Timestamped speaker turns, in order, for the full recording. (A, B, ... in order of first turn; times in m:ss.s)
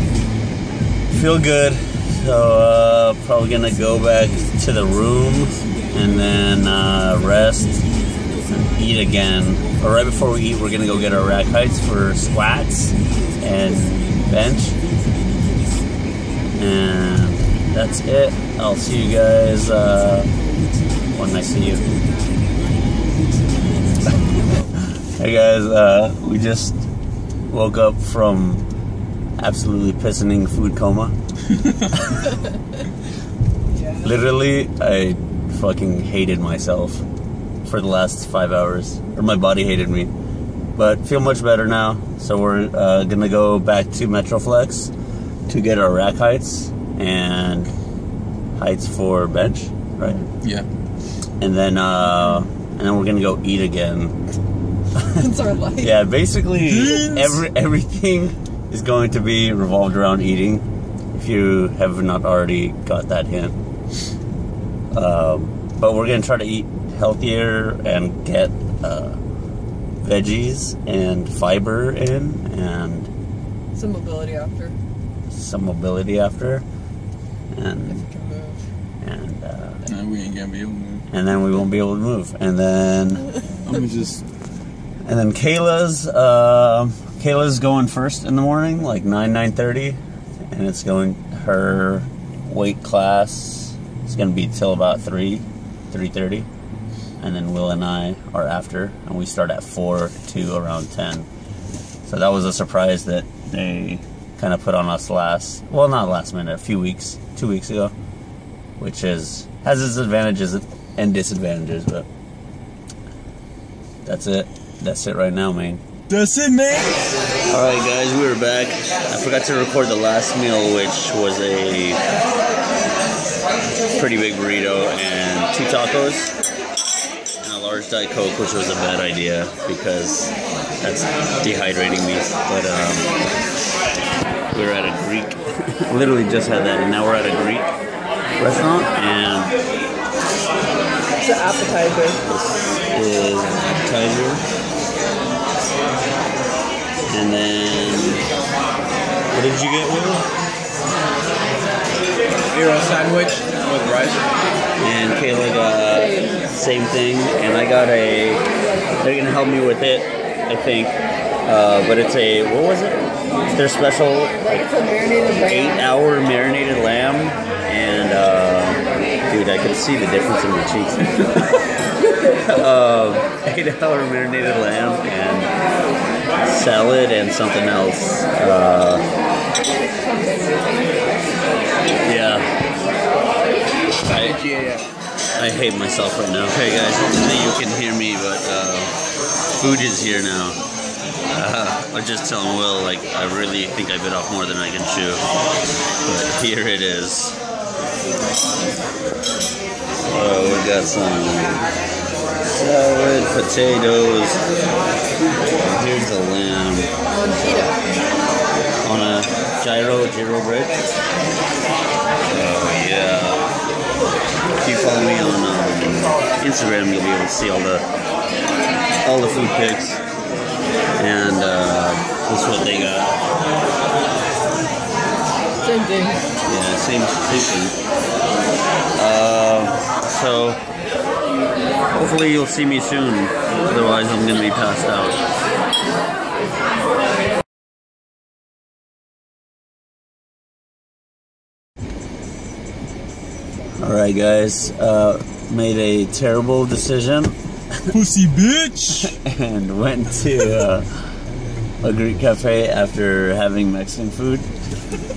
0:01.1-0:07.8 A
0:08.5-0:14.8 A
0:16.6-0:20.3 A
0:21.1-0:21.9 A
0:24.6-0:26.8 A
0:27.5-0:28.6 A
0:29.4-0:31.1 A
0:31.9-0:32.3 A
0:33.7-0:34.0 B
0:34.0-0:37.0 A
0:37.6-0:40.1 A
0:40.8-0:44.9 A
0:45.5-0:47.7 A
0:48.6-0:50.2 A
0:50.4-0:50.7 C
0:51.4-0:54.2 A
0:55.1-0:56.0 B
0:55.8-1:03.6 A
0:56.6-0:57.4 C
1:04.9-1:09.2 A
1:10.0-1:13.1 A
1:13.7-1:14.8 B
1:15.3-1:16.6 A
1:17.5-1:18.0 A
1:17.9-1:18.6 B
1:19.0-1:19.8 A
1:19.8-1:21.1 C
1:21.1-1:23.3 A
1:23.6-1:24.2 C
1:25.0-1:30.0 A
1:30.5-1:36.5 A
1:37.2-1:41.3 A
1:42.0-1:47.9 A
1:48.8-1:52.1 A
1:54.0-1:55.8 A
1:56.1-1:57.1 C
1:57.5-2:02.0 A
2:03.9-2:06.3 A
2:07.4-2:13.2 A
2:14.5-2:17.7 A
2:18.4-2:19.5 A
2:21.2-2:22.2 B
2:22.2-2:24.4 A
2:27.1-2:28.2 A
2:29.3-2:30.3 A
2:32.5-2:34.2 C
2:34.8-2:38.4 A
2:39.0-2:44.7 A
2:44.4-2:45.8 B
2:45.4-2:51.6 A
2:52.4-2:55.5 A
2:56.4-2:59.1 A
3:00.0-3:00.7 B
3:02.0-3:02.5 A
3:04.0-3:04.9 C
3:05.4-3:08.9 A
3:09.6-3:10.6 A
3:11.3-3:15.2 A
3:16.0-3:17.4 A
3:20.0-3:21.6 A
3:22.4-3:24.4 A
3:25.6-3:26.9 A
3:27.1-3:27.8 B
3:28.8-3:30.8 A
3:32.3-3:33.5 A
3:34.6-3:37.8 A
3:39.0-3:40.0 A
3:41.0-3:43.1 A
3:45.6-3:46.3 B
3:46.4-3:47.8 A
3:49.0-3:50.6 A
3:51.9-3:55.2 A
4:03.8-4:07.9 A
4:07.9-4:09.2 C
4:09.0-4:11.1 A
4:11.8-4:14.5 A